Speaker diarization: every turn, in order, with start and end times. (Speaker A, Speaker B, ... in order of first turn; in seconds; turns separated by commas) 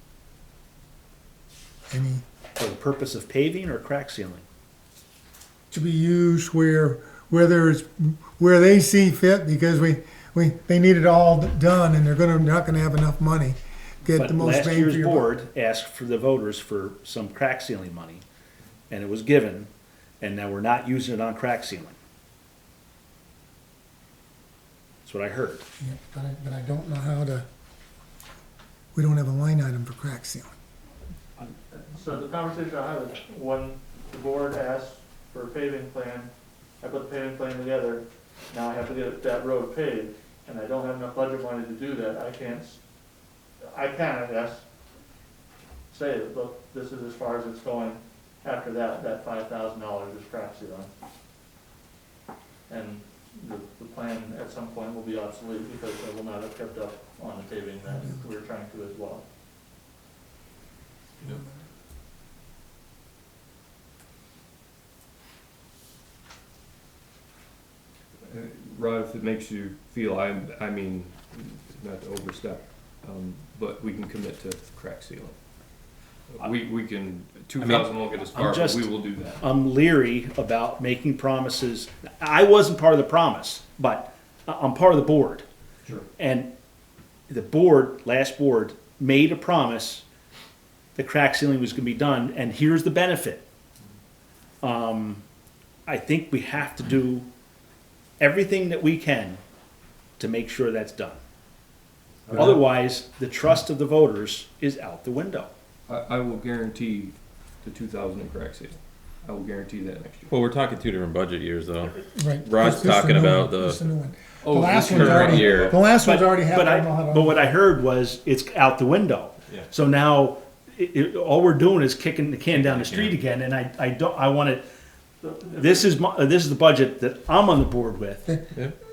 Speaker A: 1.9-2.2, Speaker B: 2.6-4.4, Speaker A: 5.7-15.3, Speaker B: 14.1-18.2, Speaker B: 18.9-19.7, Speaker B: 20.2-22.0, Speaker B: 25.0-25.7, Speaker A: 25.8-27.5, Speaker A: 28.9-30.6, Speaker C: 31.7-36.3, Speaker C: 36.8-42.8, Speaker C: 43.7-44.6, Speaker C: 45.9-50.9, Speaker C: 52.7-59.2, Speaker A: 57.9-58.3, Speaker D: 68.2-75.4, Speaker D: 76.3-79.4, Speaker B: 77.6-85.5, Speaker B: 86.2-86.5, Speaker B: 87.3-90.0, Speaker B: 91.0-93.5, Speaker B: 94.6-95.2, Speaker B: 95.9-97.3, Speaker B: 98.2-99.4, Speaker B: 100.2-101.2, Speaker D: 102.3-102.6, Speaker B: 102.3-105.5, Speaker D: 105.9-110.3, Speaker E: 110.3-113.8, Speaker A: 112.1-117.5, Speaker D: 114.4-115.8, Speaker E: 114.8-115.8, Speaker B: 115.9-124.7, Speaker E: 122.5-123.2, Speaker C: 125.2-126.0, Speaker B: 125.5-128.2